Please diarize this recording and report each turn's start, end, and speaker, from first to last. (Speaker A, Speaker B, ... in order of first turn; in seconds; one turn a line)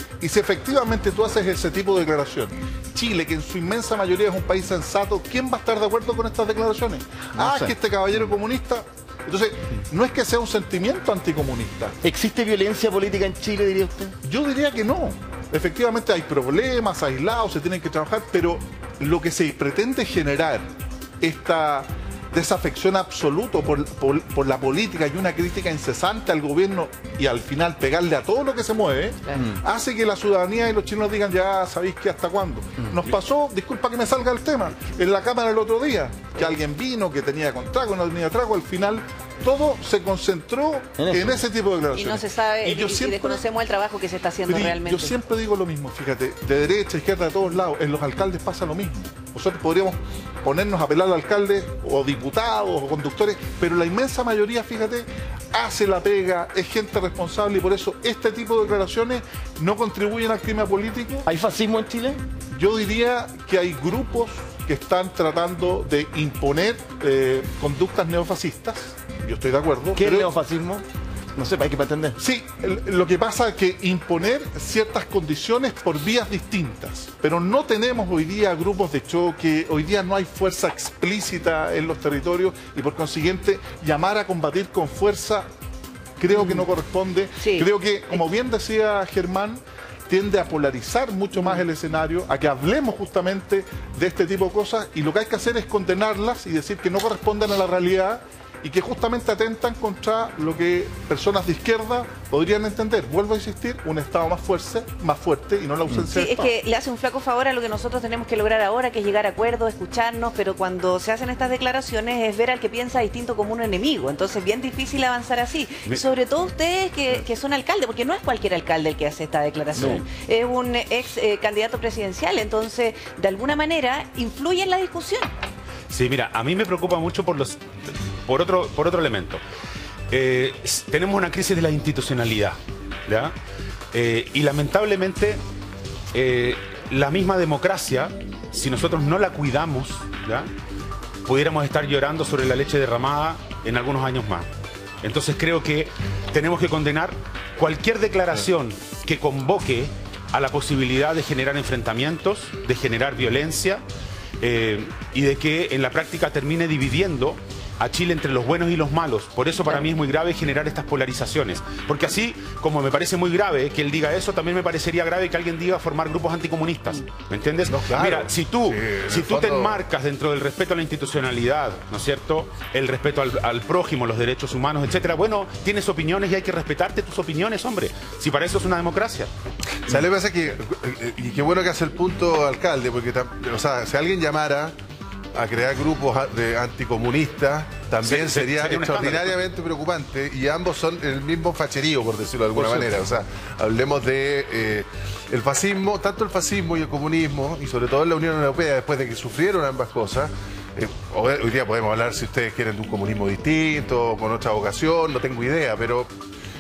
Speaker A: 0.2-12.0
Speaker B: 7.4-7.7
Speaker B: 12.0-14.2
Speaker A: 14.2-20.7
Speaker A: 21.2-43.4
Speaker B: 41.0-41.4
Speaker C: 41.9-45.1
Speaker A: 44.4-61.3
Speaker B: 61.3-62.2
Speaker A: 62.5-70.3
Speaker B: 70.0-70.8
Speaker B: 71.4-72.2
Speaker A: 72.2-85.5
Speaker A: 86.2-106.5
Speaker C: 87.4-87.7
Speaker C: 106.1-125.3
Speaker D: 119.8-120.0
Speaker D: 125.9-129.4
Speaker D: 130.1-133.3
Speaker D: 133.9-135.4
Speaker D: 136.1-140.5
Speaker D: 141.3-144.5
Speaker D: 145.0-153.8
Speaker D: 154.4-179.3
Speaker E: 167.7-169.8
Speaker E: 179.9-184.8
Speaker E: 185.3-206.1
Speaker D: 188.0-189.4
Speaker D: 192.6-192.8